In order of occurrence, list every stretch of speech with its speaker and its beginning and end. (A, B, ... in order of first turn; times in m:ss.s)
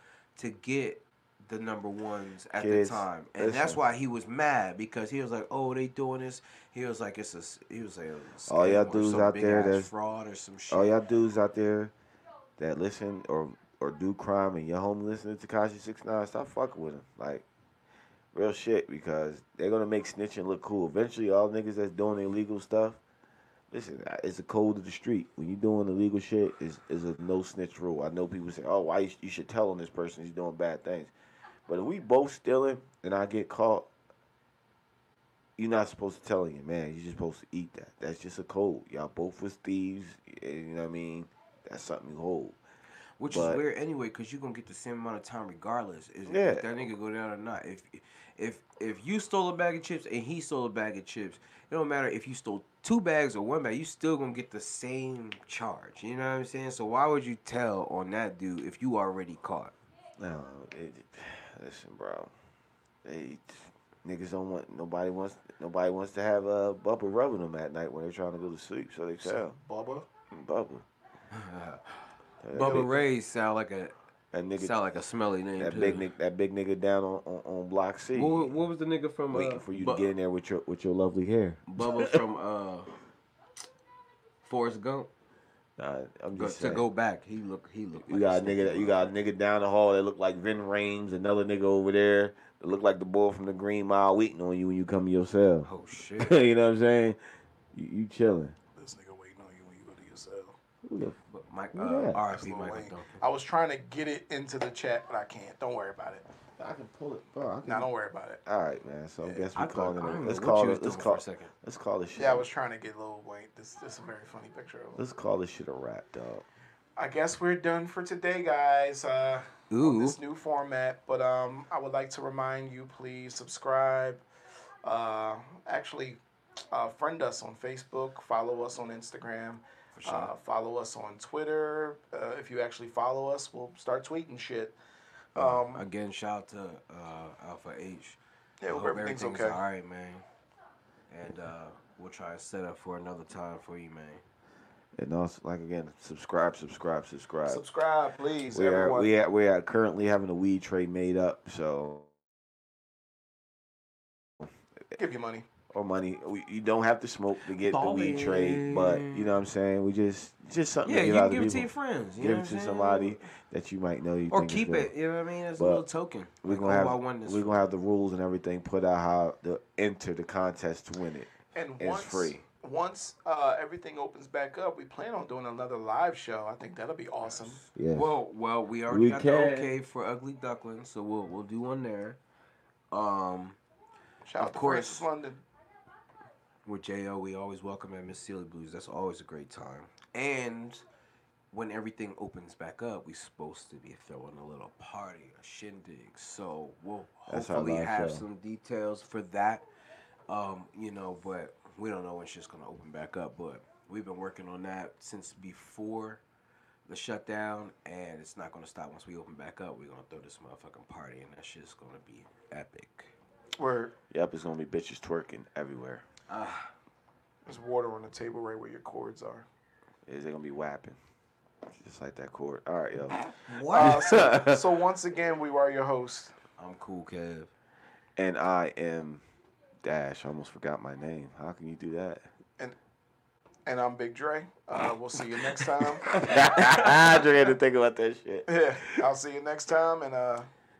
0:00.4-0:10.9 A
0:02.5-0:03.8 B
0:08.5-0:09.9 B
0:10.7-0:11.9 B
0:12.6-0:17.4 B
0:18.3-0:23.0 B
0:23.7-0:31.1 B
0:31.7-0:33.9 B
0:35.6-0:42.6 B
0:43.2-0:59.7 A
0:43.3-0:43.6 B
0:46.2-0:46.6 B
1:00.2-1:02.3 B
1:03.0-1:09.5 B
1:09.2-1:10.0 C
1:10.3-1:10.8 B
1:11.3-1:11.8 A
1:12.4-1:12.9 B
1:12.5-1:13.9 A
1:12.6-1:12.9 C
1:14.3-1:14.8 B
1:14.6-1:16.1 A
1:15.6-1:18.5 B
1:18.1-1:20.1 A
1:19.3-1:22.2 B
1:21.7-1:22.9 A
1:24.4-1:25.1 A
1:25.8-1:26.8 B
1:26.3-1:29.1 A
1:28.0-1:37.2 B
1:35.6-1:36.4 A
1:37.7-1:38.5 B
1:38.7-1:40.6 C
1:40.8-1:41.2 B
1:41.3-1:43.2 A
1:41.7-1:42.2 B
1:42.3-1:46.2 C
1:46.6-1:47.9 B
1:47.6-1:48.4 C
1:48.4-1:52.4 B
1:49.5-1:51.5 A
1:52.2-1:55.0 C
1:54.9-1:56.4 B
1:57.0-2:04.2 C
1:59.7-2:00.2 A
2:04.8-2:06.2 C
2:06.7-2:14.7 C
2:10.0-2:10.3 A
2:15.3-2:15.8 C
2:15.4-2:20.2 A
2:18.6-2:19.6 C
2:21.1-2:24.2 A
2:25.0-2:27.6 B
2:27.4-2:29.1 C
2:28.5-2:32.1 B
2:35.0-2:35.4 C
2:35.7-2:44.9 B
2:37.6-2:39.3 A
2:40.8-2:43.2 A
2:44.3-2:47.6 A
2:45.6-2:45.8 B
2:46.4-2:52.4 B
2:51.5-2:57.6 C
2:57.2-3:02.2 A
2:57.7-2:58.1 B
2:58.9-2:59.7 B
3:02.9-3:03.6 A
3:04.2-3:05.4 C
3:04.4-3:05.1 A
3:06.6-3:10.8 A
3:11.5-3:19.6 A
3:17.3-3:18.2 B
3:20.3-3:26.2 A
3:26.9-3:33.1 A
3:33.6-3:33.9 C
3:34.1-3:36.0 B
3:36.3-3:36.7 A
3:37.4-3:39.5 C
3:40.1-3:41.0 B
3:41.7-3:43.2 B
3:43.4-3:44.5 A
3:43.7-3:46.3 C
3:43.8-3:44.3 B
3:46.6-3:47.5 A
3:48.2-3:49.2 B
3:49.8-3:52.2 B
3:53.6-3:56.2 C
3:55.8-3:58.9 B
3:58.5-4:00.5 C